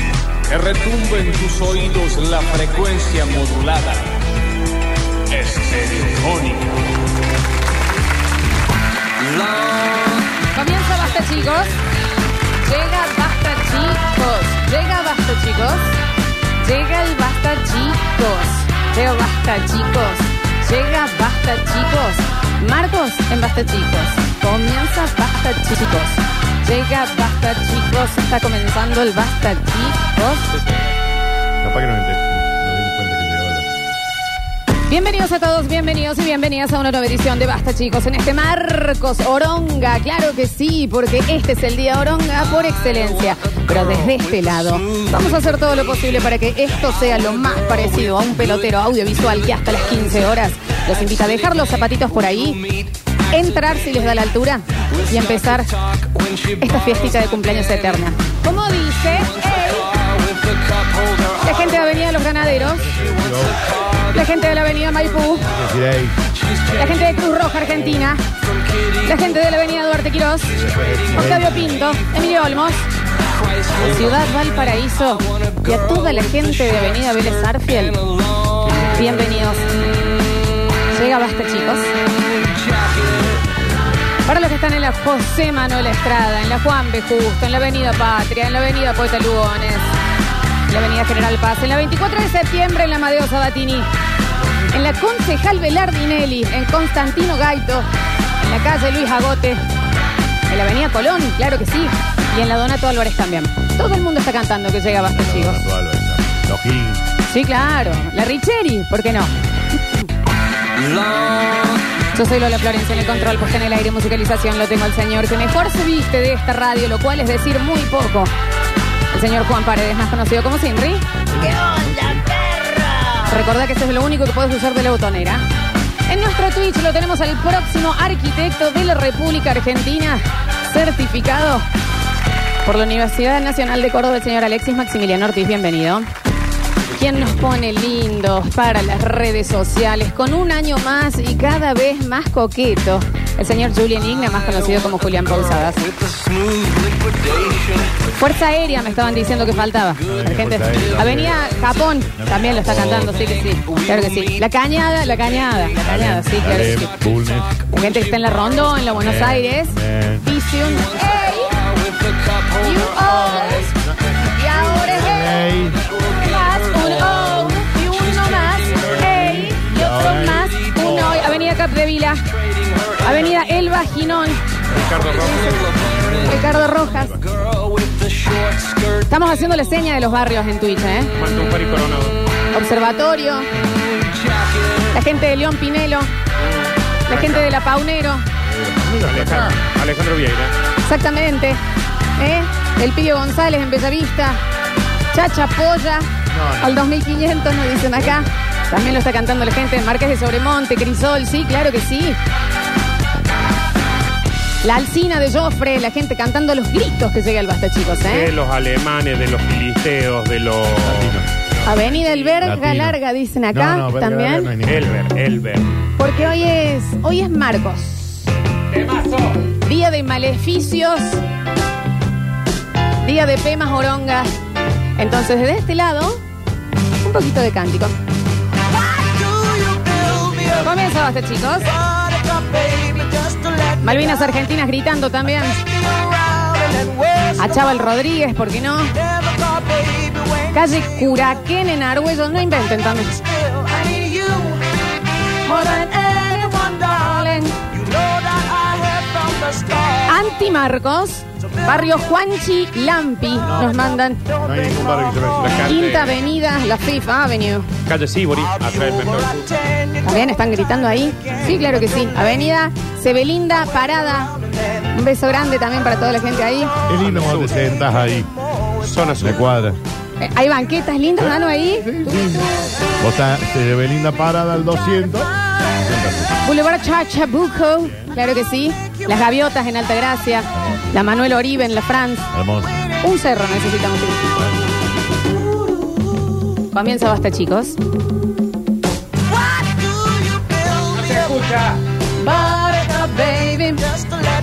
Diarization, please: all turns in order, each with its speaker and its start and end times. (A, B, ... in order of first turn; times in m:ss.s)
0:00.5-0:04.3 A
0:05.3-0:06.9 A
0:09.2-0:10.3 A
0:10.5-0:11.7 B
0:12.6-0:16.0 B
0:16.6-0:30.6 B
0:31.6-0:33.7 C
0:34.9-0:52.8 B
0:44.9-0:45.4 A
0:53.3-0:55.7 B
0:55.4-0:57.2 A
0:56.6-1:00.0 B
0:59.5-1:01.7 A
1:01.4-1:03.0 B
1:02.6-1:03.6 C
1:03.0-1:04.0 A
1:04.1-1:05.5 B
1:05.4-1:06.2 C
1:06.5-1:07.1 A
1:06.7-1:08.2 B
1:09.0-1:10.6 B
1:10.5-1:11.9 C
1:11.1-1:12.8 B
1:13.4-1:14.1 A
1:13.8-1:18.1 B
1:18.6-1:19.4 C
1:18.9-1:19.7 B
1:20.9-1:21.9 B
1:22.4-1:22.8 A
1:22.9-1:24.0 C
1:24.2-1:29.9 B
1:30.7-1:33.9 B
1:34.7-1:37.9 B
1:38.4-1:39.6 B
1:40.5-1:45.6 B
1:45.0-1:47.0 C
1:47.3-1:49.3 B
1:50.8-1:51.5 A
1:52.1-1:58.3 B
1:59.1-2:01.2 B
2:01.3-2:02.3 C
2:02.4-2:05.4 B
2:06.1-2:11.6 B
2:12.6-2:16.1 B
2:16.9-2:25.9 B
2:25.8-2:28.0 A
2:28.2-2:36.9 B
2:30.1-2:31.6 C
2:32.1-2:33.2 C
2:33.7-2:34.3 A
2:35.8-2:37.6 C
2:37.7-2:41.6 B
2:38.9-2:40.3 C
2:41.7-2:43.2 A
2:42.6-2:43.7 B
2:43.2-2:45.9 C
2:44.4-2:45.5 B
2:45.9-2:47.4 A
2:46.0-2:52.2 B
2:48.2-2:49.5 A
2:49.6-2:50.6 C
2:50.9-2:51.2 A
2:52.7-2:53.0 A
2:53.0-2:54.4 B
2:54.7-2:56.4 D
2:55.3-2:56.2 A
2:55.4-2:55.6 B
2:56.2-2:57.2 B
2:57.2-2:59.1 A
2:59.1-3:01.1 B
3:01.2-3:02.2 D
3:02.5-3:03.5 B
3:04.0-3:04.9 A
3:04.9-3:06.1 B
3:06.4-3:07.5 D
3:07.1-3:08.2 B
3:08.4-3:09.6 C
3:09.1-3:10.5 D
3:10.8-3:11.6 B
3:12.2-3:14.4 B
3:15.1-3:22.2 B
3:16.3-3:16.9 C
3:17.6-3:18.3 C
3:24.6-3:28.3 B
3:28.0-3:32.3 D
3:30.8-3:31.3 C
3:31.6-3:34.5 B
3:32.4-3:33.0 C
3:33.5-3:35.0 C
3:34.6-3:36.4 D
3:36.0-3:38.3 B
3:38.7-3:39.5 D
3:39.5-3:41.2 B
3:43.0-3:44.4 B
3:45.0-3:46.2 B
3:47.0-3:48.0 B
3:50.1-3:50.4 D
3:50.4-3:51.9 B
3:53.6-3:55.8 B
3:57.3-3:59.0 B
4:00.4-4:04.5 B
4:05.4-4:07.6 B
4:10.0-4:14.4 B
4:13.4-4:13.8 C
4:14.4-4:15.7 C
4:15.4-4:16.2 D
4:15.6-4:17.7 B
4:17.9-4:19.6 D
4:20.0-4:26.7 B
4:26.9-4:28.3 C
4:27.0-4:27.6 D
4:28.8-4:29.5 D
4:29.2-4:29.8 C
4:30.2-4:32.5 B
4:31.8-4:36.4 C
4:36.4-4:42.3 B
4:42.3-4:42.9 C
4:43.0-4:44.4 B
4:46.7-4:47.8 B
4:50.8-4:51.8 D
4:52.2-4:54.0 B